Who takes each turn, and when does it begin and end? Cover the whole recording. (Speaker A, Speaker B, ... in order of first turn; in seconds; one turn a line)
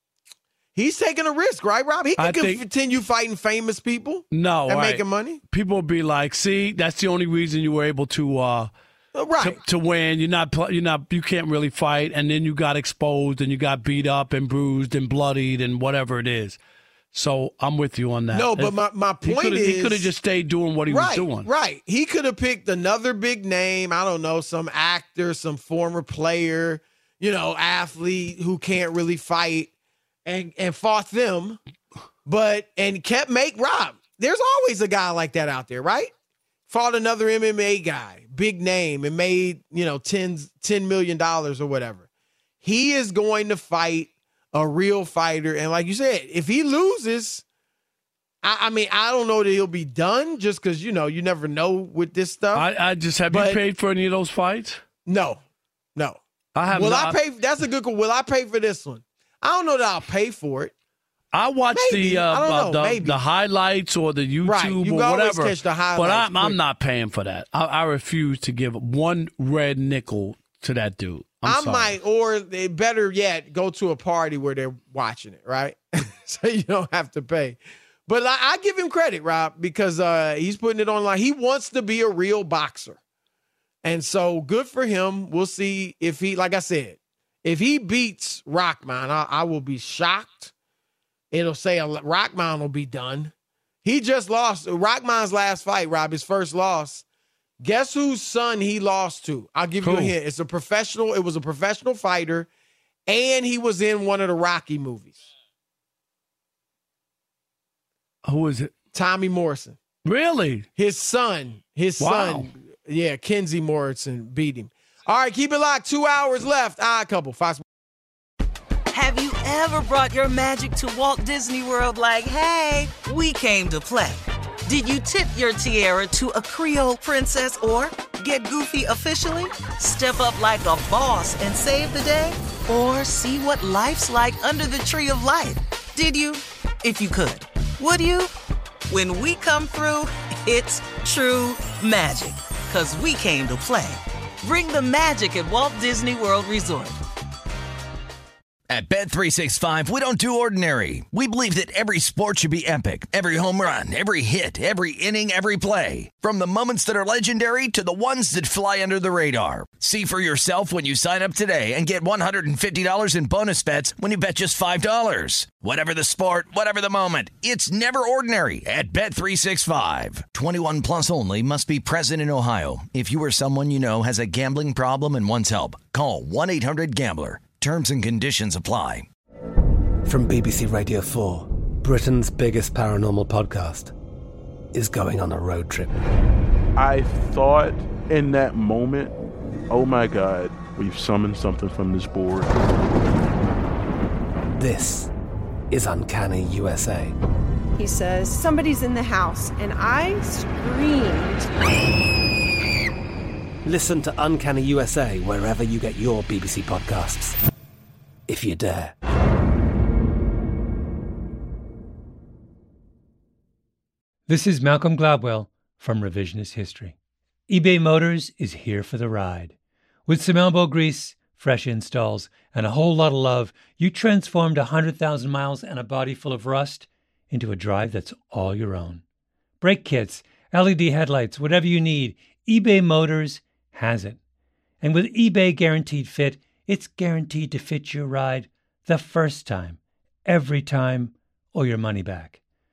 Speaker A: 0.8-5.4
Speaker B: 2.2-2.6
Speaker B: 4.3-8.7
Speaker A: 9.1-9.6
Speaker B: 9.4-16.6
Speaker B: 17.1-21.5
Speaker A: 18.3-20.1
Speaker A: 20.9-29.7
Speaker A: 30.2-31.6
Speaker A: 32.2-36.1
Speaker A: 36.7-42.0
Speaker A: 42.6-47.4
Speaker A: 48.4-52.6
Speaker B: 52.5-54.8
Speaker A: 53.3-53.6
Speaker A: 55.0-55.4
Speaker B: 56.5-57.2
Speaker A: 56.7-60.7
Speaker B: 61.3-72.0
Speaker A: 61.7-63.2
Speaker A: 64.4-66.6
Speaker A: 71.5-83.0
Speaker A: 83.8-90.5
Speaker A: 91.3-93.3
Speaker A: 93.8-97.0
Speaker A: 97.6-102.5
Speaker B: 99.8-100.1
Speaker A: 103.1-105.2
Speaker B: 108.2-108.7
Speaker A: 108.9-109.8
Speaker B: 110.0-110.7
Speaker A: 110.8-117.6
Speaker B: 112.0-112.5
Speaker C: 118.9-138.3
Speaker C: 138.9-147.0
Speaker D: 148.7-179.1
Speaker E: 180.0-183.9
Speaker E: 184.7-186.0
Speaker F: 186.8-189.1
Speaker F: 189.7-192.5
Speaker E: 194.5-195.1
Speaker E: 195.7-197.2
Speaker G: 197.8-201.5
Speaker E: 203.6-207.4
Speaker E: 208.3-208.9
Speaker H: 214.3-216.9
Speaker H: 217.5-219.5
Speaker H: 220.1-229.0
Speaker H: 229.6-234.2
Speaker H: 234.8-242.4